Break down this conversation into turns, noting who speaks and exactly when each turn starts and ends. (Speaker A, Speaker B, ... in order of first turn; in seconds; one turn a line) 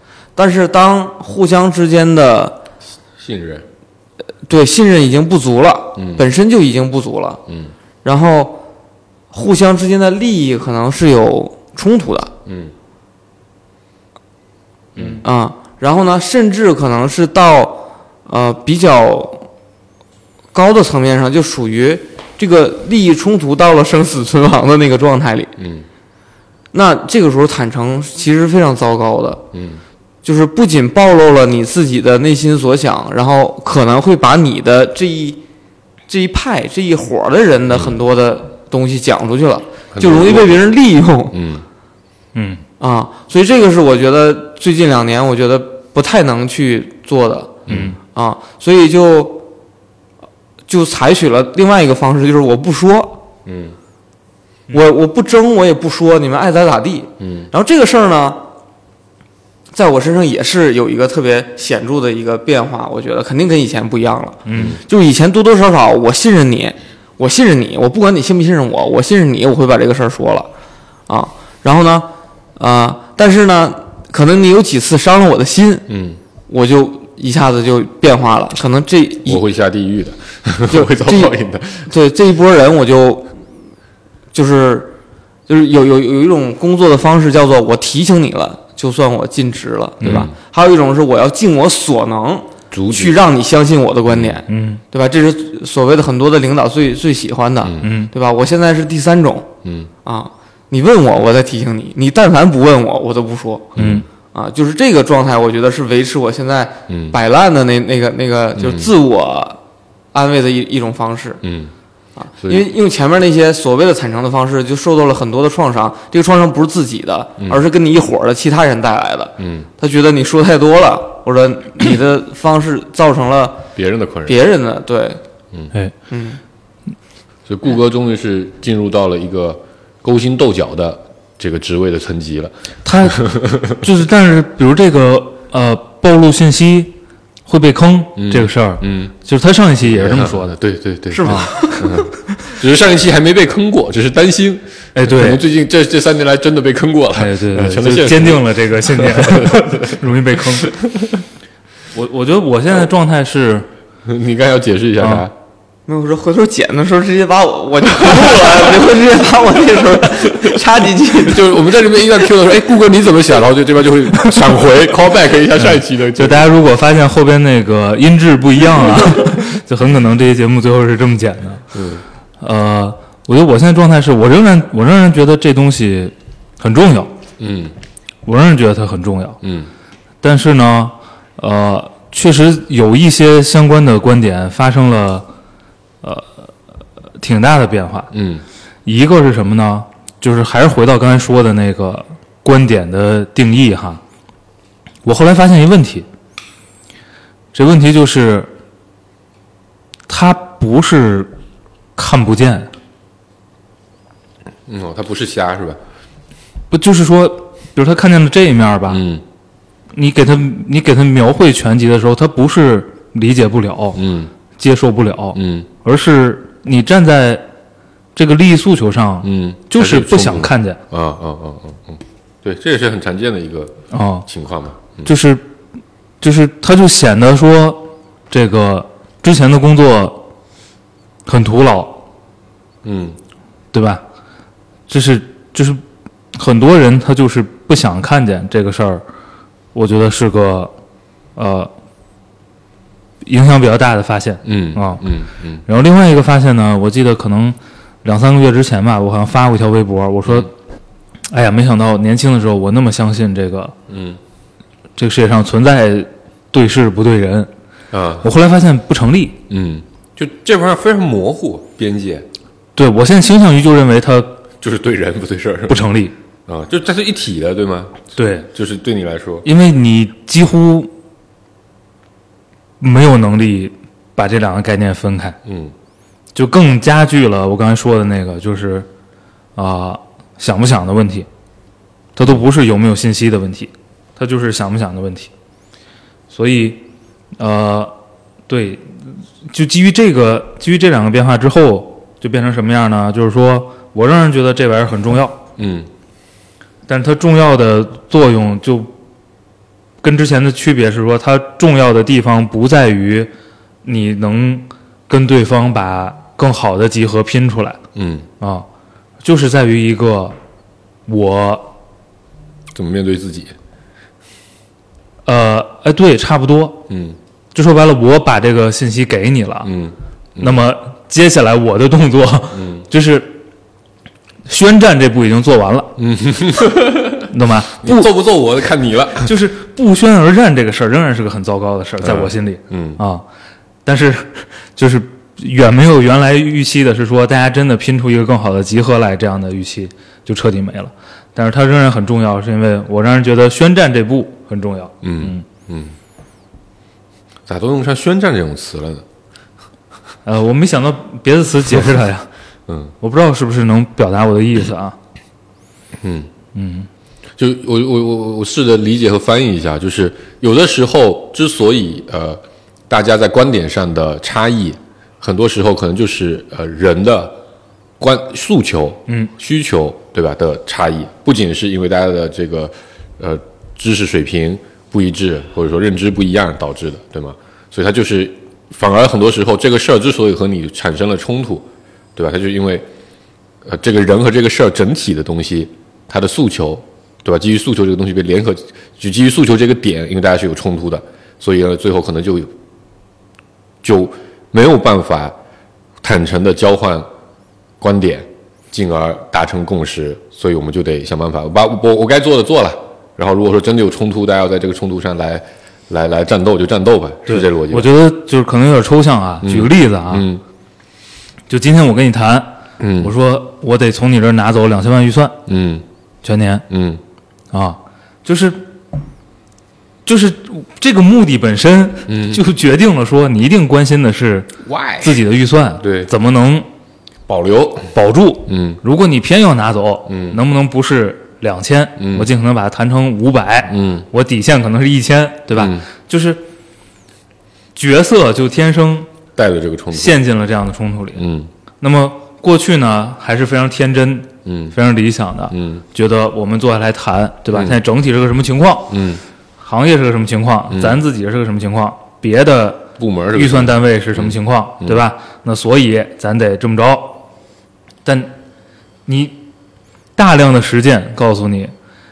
Speaker A: 0.4-2.6
Speaker B: 3.2-3.6
Speaker A: 4.5-7.4
Speaker B: 6.0-6.2
Speaker B: 7.5-7.7
Speaker A: 8.0-8.6
Speaker A: 9.3-12.3
Speaker B: 12.4-12.7
Speaker B: 14.9-15.2
Speaker A: 15.2-19.5
Speaker A: 20.5-25.5
Speaker B: 25.6-25.9
Speaker A: 26.7-29.4
Speaker B: 29.5-29.8
Speaker A: 30.2-35.4
Speaker A: 36.1-41.4
Speaker B: 39.9-40.6
Speaker B: 41.3-41.6
Speaker C: 42.4-42.6
Speaker A: 42.8-47.6
Speaker B: 47.7-48.0
Speaker C: 47.7-48.0
Speaker A: 48.1-49.4
Speaker A: 50.7-53.2
Speaker B: 53.5-53.8
Speaker A: 54.7-58.4
Speaker B: 57.2-57.5
Speaker A: 59.7-70.5
Speaker C: 64.5-64.8
Speaker B: 64.5-64.8
Speaker A: 71.1-75.8
Speaker B: 75.9-76.2
Speaker A: 76.5-79.4
Speaker B: 79.2-81.9
Speaker A: 80.7-81.3
Speaker A: 81.9-83.3
Speaker A: 84.3-85.0
Speaker A: 85.5-99.5
Speaker B: 90.0-90.3
Speaker B: 92.7-93.2
Speaker B: 94.1-94.4
Speaker C: 94.5-94.8
Speaker B: 97.6-97.9
Speaker C: 97.8-98.1
Speaker B: 99.6-99.9
Speaker A: 100.0-103.8
Speaker B: 103.8-104.0
Speaker C: 103.8-104.0
Speaker A: 104.3-109.6
Speaker B: 106.9-107.2
Speaker B: 108.6-108.9
Speaker A: 110.1-111.4
Speaker B: 111.4-111.7
Speaker A: 112.2-123.6
Speaker B: 119.4-119.7
Speaker B: 123.7-124.4
Speaker A: 124.2-125.2
Speaker A: 126.1-126.4
Speaker B: 127.5-133.9
Speaker C: 132.8-140.5
Speaker B: 138.2-139.1
Speaker B: 139.8-150.0
Speaker A: 141.1-142.0
Speaker C: 141.2-141.7
Speaker C: 144.9-145.4
Speaker C: 147.2-150.7
Speaker B: 150.6-151.2
Speaker C: 151.9-153.7
Speaker B: 154.1-155.3
Speaker C: 155.0-155.2
Speaker A: 155.9-162.0
Speaker B: 158.0-158.7
Speaker B: 161.1-166.5
Speaker C: 165.6-171.6
Speaker B: 171.7-172.0
Speaker C: 172.4-177.1
Speaker B: 177.4-177.7
Speaker C: 178.2-179.4
Speaker B: 179.4-179.7
Speaker C: 180.2-185.3
Speaker C: 186.0-186.5
Speaker C: 187.2-188.1
Speaker B: 188.1-188.4
Speaker C: 188.8-194.0
Speaker C: 195.0-196.1
Speaker C: 197.5-198.5
Speaker C: 200.1-201.3
Speaker C: 201.9-202.7
Speaker B: 204.7-205.8
Speaker C: 206.7-209.0
Speaker B: 208.9-209.2
Speaker C: 209.9-214.0
Speaker B: 213.9-214.3
Speaker C: 214.6-217.4
Speaker B: 215.3-215.7
Speaker C: 218.1-220.8
Speaker B: 219.2-225.1
Speaker C: 223.9-224.2
Speaker C: 225.0-225.4
Speaker C: 226.2-230.3
Speaker C: 231.2-232.0
Speaker B: 232.8-233.2
Speaker C: 233.7-234.0
Speaker C: 234.9-235.8
Speaker C: 236.4-239.0
Speaker C: 239.7-240.7
Speaker C: 241.4-241.7
Speaker C: 243.2-245.1
Speaker B: 244.4-245.6
Speaker C: 245.7-250.5
Speaker C: 251.3-253.7
Speaker B: 253.9-254.2
Speaker C: 255.0-257.5
Speaker B: 257.9-258.3
Speaker C: 258.2-259.4
Speaker B: 259.5-262.3
Speaker C: 262.8-264.4
Speaker B: 264.6-265.9
Speaker C: 265.7-266.1
Speaker B: 266.5-269.5
Speaker C: 268.1-268.5
Speaker C: 269.4-270.9
Speaker C: 272.8-275.4
Speaker B: 275.4-275.7
Speaker C: 276.4-278.9
Speaker C: 279.6-281.3
Speaker C: 282.1-285.3
Speaker C: 286.3-286.8
Speaker C: 287.4-287.9
Speaker C: 288.5-295.4
Speaker B: 295.6-295.9
Speaker C: 296.9-298.9
Speaker C: 300.0-303.3
Speaker C: 303.9-307.8
Speaker B: 307.9-308.3
Speaker C: 308.4-308.6
Speaker C: 309.2-310.4
Speaker C: 311.1-311.7
Speaker B: 312.7-313.5
Speaker C: 315.2-316.9
Speaker B: 316.9-317.2
Speaker C: 317.5-319.7
Speaker B: 319.6-320.6
Speaker C: 320.4-323.4
Speaker B: 322.5-322.9
Speaker C: 324.5-325.9
Speaker B: 326.0-327.3
Speaker C: 327.3-328.1
Speaker B: 327.8-329.3
Speaker C: 329.2-333.2
Speaker B: 332.0-333.0
Speaker C: 333.9-345.4
Speaker B: 345.0-345.9
Speaker B: 347.5-349.0
Speaker C: 350.2-352.3
Speaker B: 352.7-352.9
Speaker C: 353.0-354.9
Speaker B: 356.0-356.3
Speaker C: 356.5-356.9
Speaker B: 357.4-367.4
Speaker B: 368.0-382.9
Speaker B: 383.6-392.5
Speaker B: 393.8-395.4
Speaker B: 396.0-397.1
Speaker B: 397.8-407.9
Speaker C: 407.3-410.2
Speaker B: 409.4-410.4
Speaker C: 411.5-415.4
Speaker B: 412.8-413.1
Speaker B: 415.5-415.9
Speaker C: 416.2-416.6
Speaker B: 416.7-417.0
Speaker C: 417.5-418.7
Speaker C: 420.0-426.7
Speaker B: 422.1-422.4
Speaker B: 424.6-425.2
Speaker B: 425.8-426.1
Speaker B: 427.3-427.9
Speaker C: 427.9-436.4
Speaker B: 428.5-428.8
Speaker B: 430.1-430.4
Speaker B: 432.0-432.3
Speaker B: 433.7-434.1
Speaker B: 435.5-435.9
Speaker C: 437.7-439.1
Speaker B: 439.4-440.2
Speaker C: 439.9-441.2
Speaker B: 441.1-441.5
Speaker C: 441.8-449.0
Speaker B: 444.4-444.8
Speaker B: 445.5-445.8
Speaker B: 447.5-447.8
Speaker B: 448.9-449.2
Speaker C: 449.6-457.2
Speaker B: 450.7-451.0
Speaker B: 453.0-455.0
Speaker C: 458.0-458.3
Speaker C: 459.1-459.4
Speaker C: 460.1-461.7